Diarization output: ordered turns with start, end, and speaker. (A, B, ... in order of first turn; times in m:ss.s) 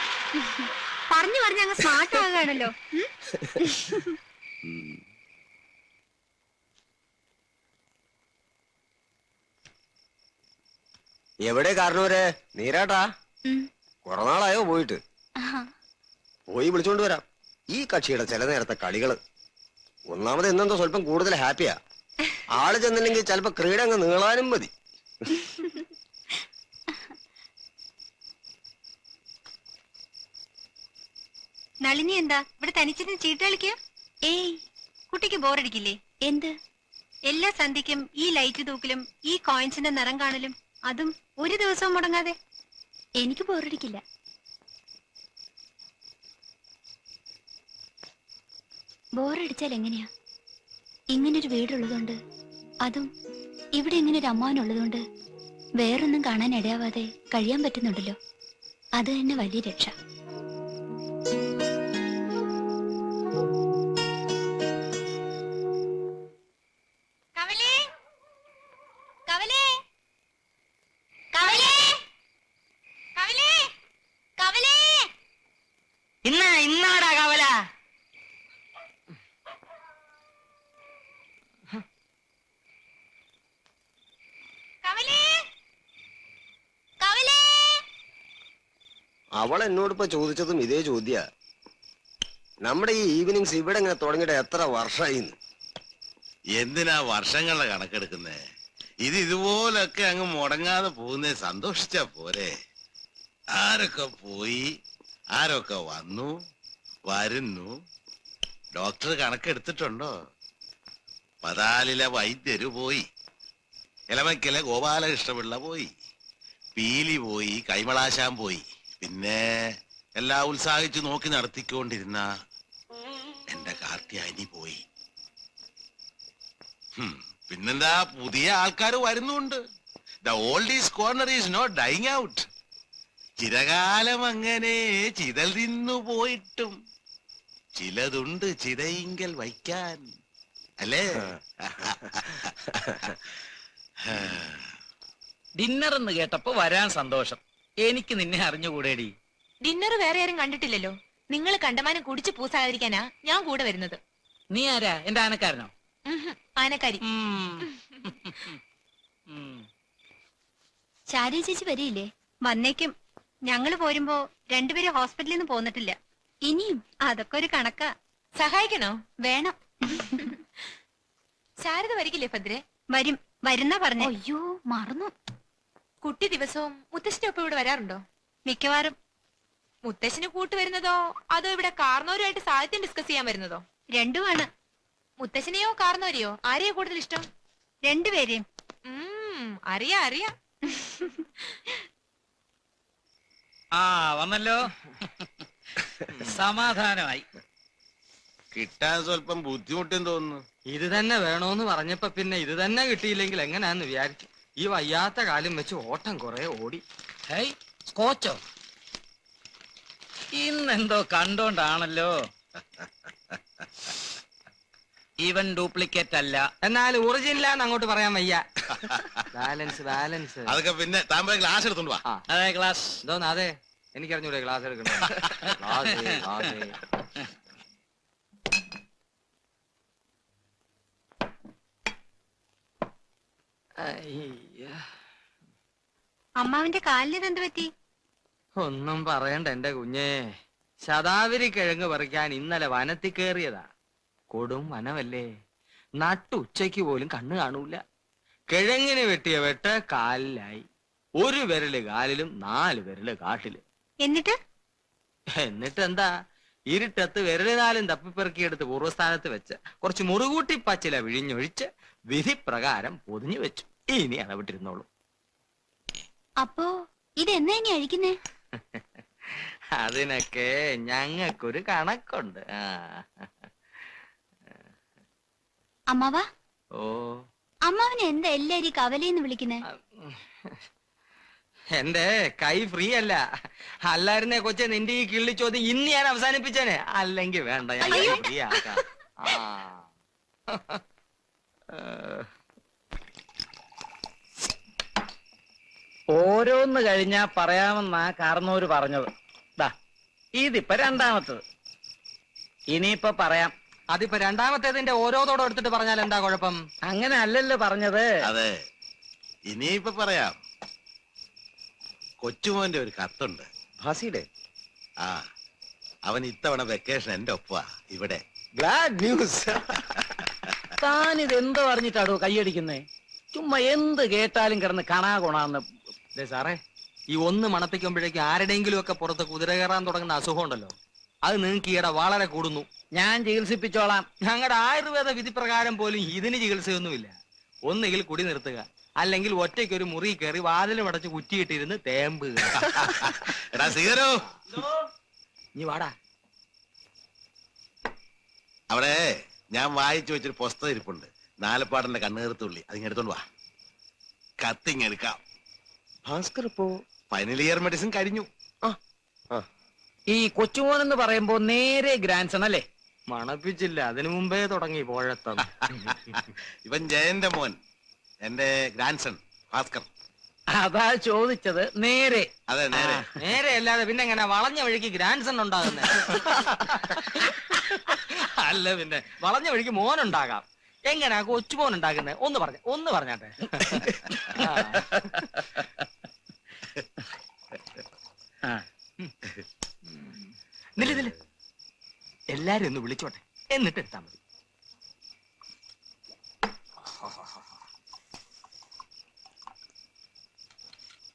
0:00.4-0:03.1 A
0:03.7-0:04.2 A
0:04.7-0:05.0 B
0:11.4-0:13.1 B
0:14.0-0:15.0 B
0:15.4-0:15.7 C
0:16.5-0:19.2 B
0:20.1-0:21.8 B
0:22.5-0:24.7 B
0:31.8-0:33.8 A
0:35.1-0:36.0 A
0:36.2-0:36.6 C
0:37.3-0:42.4 A
0:43.2-0:44.0 C
0:49.2-0:50.1 C
0:51.1-0:52.2 C
0:52.8-0:53.1 C
0:53.8-0:55.0 C
0:55.8-0:58.2 C
0:59.0-0:59.9 C
1:09.3-1:09.8 A
1:13.2-1:13.5 D
1:14.4-1:14.8 A
1:16.2-1:17.6 E
1:24.9-1:25.2 D
1:27.0-1:27.4 A
1:29.4-1:31.2 B
1:32.6-1:35.3 B
1:36.6-1:38.4 F
1:39.0-1:42.5 F
1:43.6-1:44.7 F
1:45.4-1:46.3 F
1:47.1-1:47.7 F
1:48.8-1:50.1 F
1:51.4-1:53.0 F
1:54.1-1:55.9 F
1:56.8-2:02.2 F
2:03.5-2:04.8 F
2:07.0-2:09.6 F
2:10.2-2:12.5 F
2:13.4-2:16.8 F
2:17.8-2:20.0 F
2:20.8-2:23.1 F
2:24.1-2:24.7 F
2:25.6-2:29.1 G
2:29.6-2:34.0 D
2:34.5-2:35.7 G
2:36.5-2:36.9 D
2:37.2-2:37.6 G
2:41.1-2:42.1 C
2:42.4-2:42.9 A
2:43.5-2:46.0 A
2:46.5-2:46.8 C
2:47.0-2:47.9 A
2:48.4-2:48.9 D
2:49.3-2:49.7 C
2:51.6-2:52.6 D
2:52.9-2:54.1 A
2:54.0-2:55.1 C
2:56.0-2:58.0 D
2:58.5-2:58.9 A
2:59.9-3:03.6 D
3:04.0-3:04.5 A
3:05.2-3:07.2 D
3:07.8-3:08.5 A
3:08.9-3:10.2 D
3:13.8-3:14.5 G
3:16.4-3:17.1 G
3:18.5-3:20.4 F
3:20.7-3:26.8 E
3:27.3-3:28.4 G
3:30.4-3:32.1 G
3:35.2-3:36.4 G
3:36.6-3:38.4 E
3:38.8-3:39.2 F
3:39.3-3:40.5 E
3:40.5-3:42.0 F
3:42.3-3:42.9 G
3:43.0-3:46.8 E
3:53.8-3:54.8 E
3:56.4-3:57.7 A
3:58.6-4:00.3 E
4:00.8-4:03.6 E
4:04.3-4:05.3 E
4:06.0-4:07.8 E
4:08.5-4:10.6 E
4:11.2-4:13.6 E
4:14.0-4:14.4 A
4:15.4-4:16.1 E
4:16.7-4:24.8 E
4:26.4-4:28.1 C
4:29.8-4:33.3 E
4:35.9-4:36.2 C
4:36.8-4:37.2 E
4:37.7-4:39.6 C
4:39.8-4:40.5 E
4:41.8-4:43.2 E
4:43.9-4:49.8 E
4:47.9-4:48.2 A
4:47.9-4:48.2 C
4:50.5-4:50.8 E
4:51.7-4:52.3 E
4:56.1-4:59.0 G
5:00.4-5:01.4 G
5:02.7-5:03.5 G
5:03.9-5:06.6 E
5:06.9-5:08.0 G
5:08.2-5:08.5 F
5:09.5-5:10.4 F
5:12.2-5:13.5 F
5:13.8-5:14.2 B
5:16.1-5:18.2 F
5:18.6-5:19.7 B
5:20.8-5:22.8 G
5:23.3-5:25.6 G
5:26.2-5:26.6 E
5:27.1-5:30.7 E
5:31.2-5:32.7 E
5:33.0-5:34.0 G
5:34.3-5:37.1 E
5:37.7-5:42.8 E
5:42.6-5:44.2 F
5:45.6-5:45.9 E
5:48.7-5:53.2 F
5:54.4-5:55.2 F
5:56.0-5:56.7 B
5:57.1-5:58.3 F
6:00.1-6:02.6 G
6:03.1-6:06.2 E
6:06.6-6:07.6 F
6:08.2-6:09.9 F
6:10.6-6:12.2 G
6:12.5-6:13.1 F
6:12.8-6:25.4 E
6:30.8-6:31.1 E
6:32.3-6:34.2 E